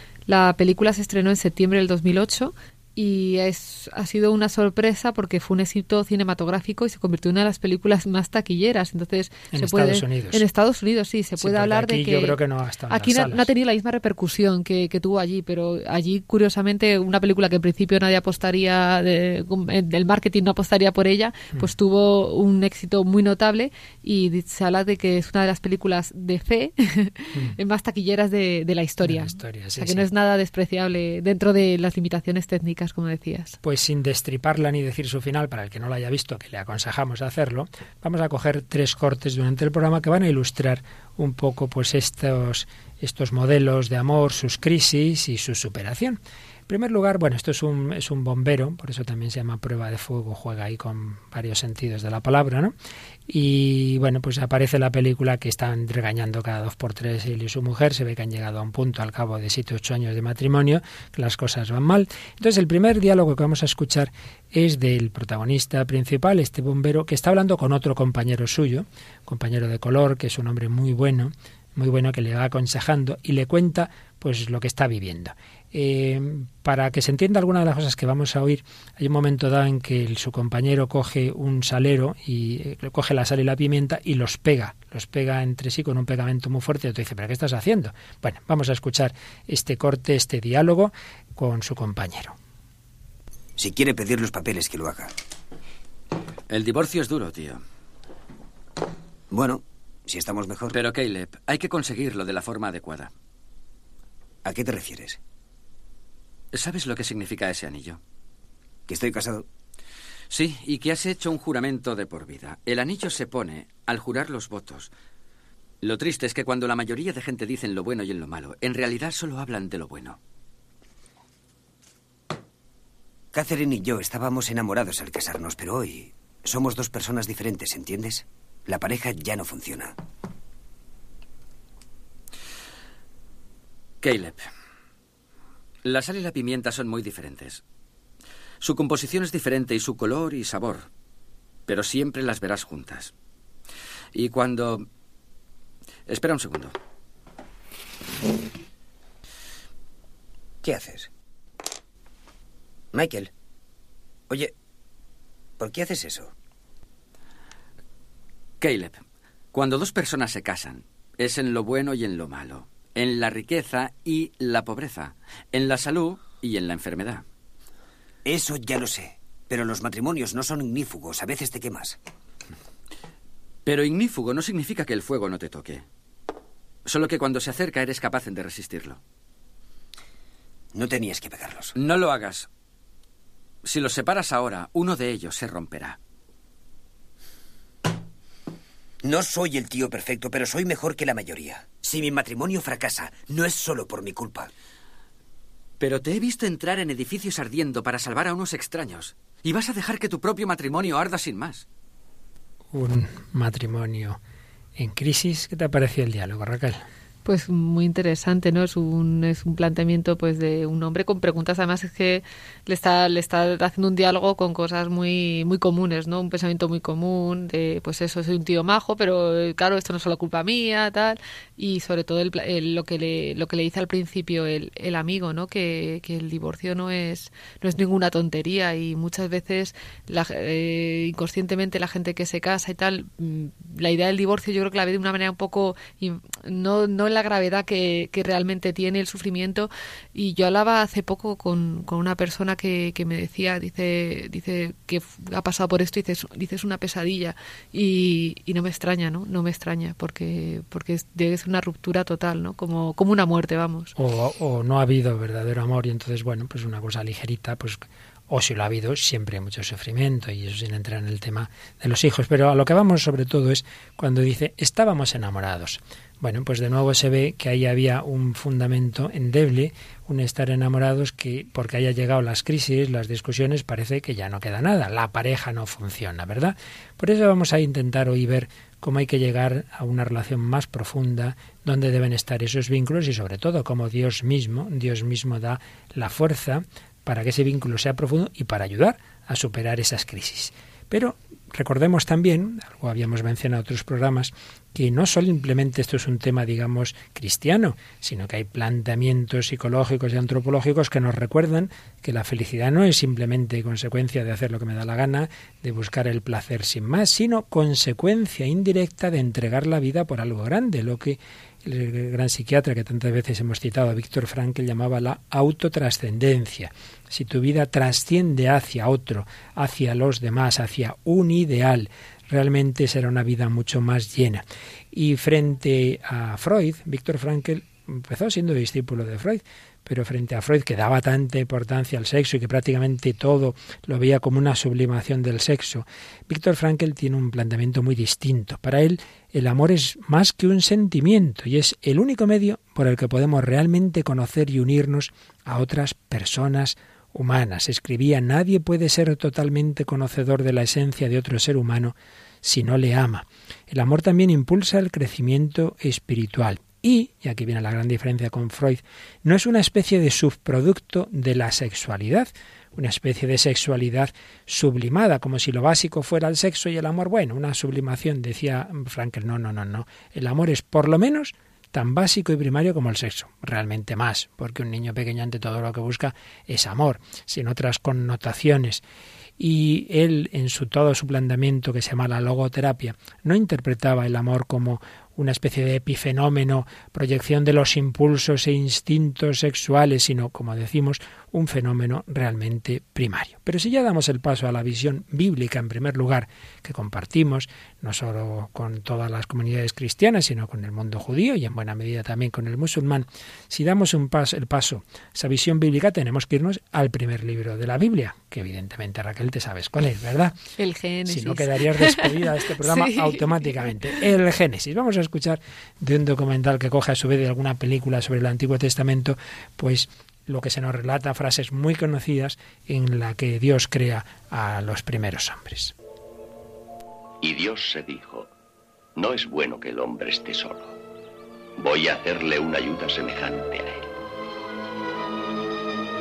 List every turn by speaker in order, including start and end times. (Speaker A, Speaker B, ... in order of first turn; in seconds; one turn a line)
Speaker A: 0.3-12.4
Speaker B: 9.5-10.4
Speaker B: 11.4-13.5
Speaker A: 12.9-33.6
Speaker B: 29.0-30.0
Speaker B: 33.6-52.7
Speaker B: 53.3-92.3
Speaker C: 93.6-95.1
Speaker D: 96.5-97.6
Speaker C: 99.3-100.8
Speaker D: 100.7-103.1
Speaker C: 104.4-105.2
Speaker D: 106.5-108.0
Speaker C: 108.9-109.5
Speaker D: 110.3-114.9
Speaker D: 115.8-120.2
Speaker C: 123.3-129.9
Speaker D: 134.0-134.5
Speaker D: 135.8-137.6
Speaker D: 138.6-140.9
Speaker D: 141.7-143.1
Speaker D: 144.1-144.9
Speaker D: 146.1-146.7
Speaker C: 150.6-151.1
Speaker C: 152.9-153.3
Speaker C: 155.6-156.3
Speaker D: 158.6-159.0
Speaker D: 159.5-167.2
Speaker C: 168.2-172.0
Speaker D: 173.6-175.8
Speaker D: 176.8-179.0
Speaker C: 180.7-181.7
Speaker D: 181.8-182.5
Speaker D: 183.6-186.0
Speaker C: 189.0-194.5
Speaker D: 195.8-201.6
Speaker B: 202.7-204.2
Speaker B: 204.8-206.8
Speaker A: 207.2-253.9
Speaker B: 253.9-378.8
Speaker B: 379.4-410.4
Speaker A: 410.6-413.4
Speaker B: 411.1-425.7
Speaker E: 427.2-428.3
Speaker E: 428.9-430.7
Speaker E: 431.6-433.9